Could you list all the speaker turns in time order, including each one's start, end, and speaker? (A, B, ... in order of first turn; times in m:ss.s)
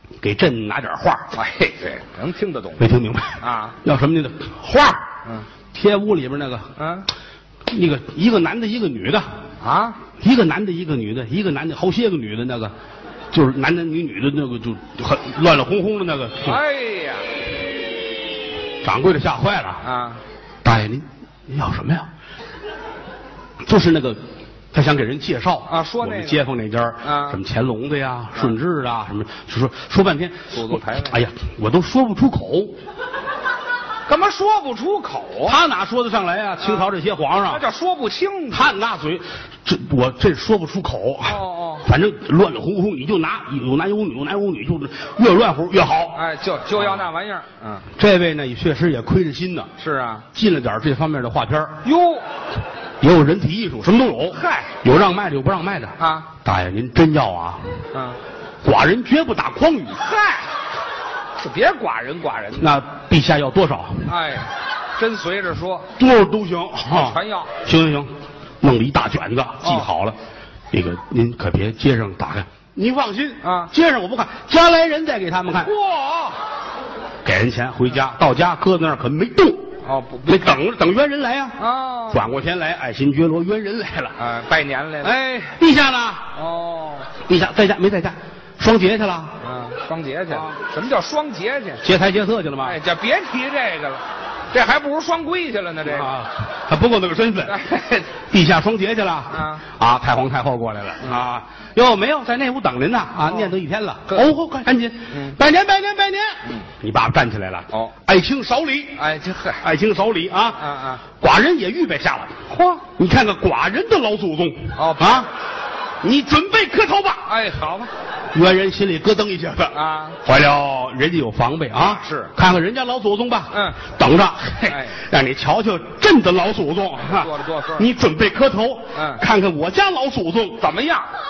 0:00.2-0:01.3 A
0:01.3-0:03.8 B
0:02.8-0:05.1 A
0:05.7-0:06.7 A
0:06.8-0:07.1 B
0:07.7-0:09.2 A
0:09.6-0:10.0 B
0:10.2-0:12.7 A
0:13.3-0:16.6 A
0:16.4-0:17.3 B
0:18.8-0:19.8 A
0:19.8-0:20.2 B
0:20.6-0:22.1 A
0:23.6-0:24.2 A
0:24.7-0:32.8 A
0:25.7-0:26.4 B
0:27.0-0:27.4 B
0:30.5-0:31.2 B
0:34.1-0:35.6 B
0:35.4-0:37.6 A
0:36.6-0:36.9 B
0:37.4-0:38.7 B
0:38.5-0:46.2 A
0:41.2-0:41.9 B
0:46.1-0:47.9 B
0:46.8-0:47.1 A
0:48.0-0:49.7 A
0:49.8-0:50.3 B
0:50.3-0:51.8 A
0:51.8-0:52.2 B
0:53.0-0:57.8 A
0:54.3-0:54.7 B
0:56.0-0:56.3 B
0:57.9-0:58.2 B
0:58.6-1:00.0 A
1:00.0-1:00.6 B
1:01.4-1:02.7 B
1:02.6-1:04.1 A
1:04.0-1:05.9 B
1:06.0-1:10.2 A
1:06.9-1:07.5 B
1:09.6-1:09.9 B
1:10.7-1:15.7 A
1:13.4-1:13.7 B
1:15.6-1:16.4 B
1:17.2-1:24.2 A
1:19.8-1:20.6 B
1:21.6-1:22.3 B
1:24.2-1:25.3 B
1:25.0-1:26.3 A
1:26.3-1:27.1 B
1:27.2-1:29.4 A
1:29.4-1:31.9 B
1:31.8-1:32.8 A
1:32.6-1:36.1 B
1:35.8-1:37.6 A
1:37.5-1:38.1 B
1:38.3-1:49.1 A
1:39.3-1:39.6 B
1:43.3-1:43.5 B
1:45.1-1:45.4 B
1:49.0-1:49.6 B
1:49.6-1:55.3 A
1:50.6-1:51.0 B
1:52.5-1:52.8 B
1:54.8-1:55.3 B
1:56.0-1:57.3 A
1:57.3-1:57.9 B
1:58.3-2:10.6 A
1:59.7-2:00.2 B
2:01.8-2:02.3 B
2:03.5-2:03.8 B
2:04.6-2:05.0 B
2:07.0-2:07.9 B
2:08.9-2:09.2 B
2:10.6-2:11.1 B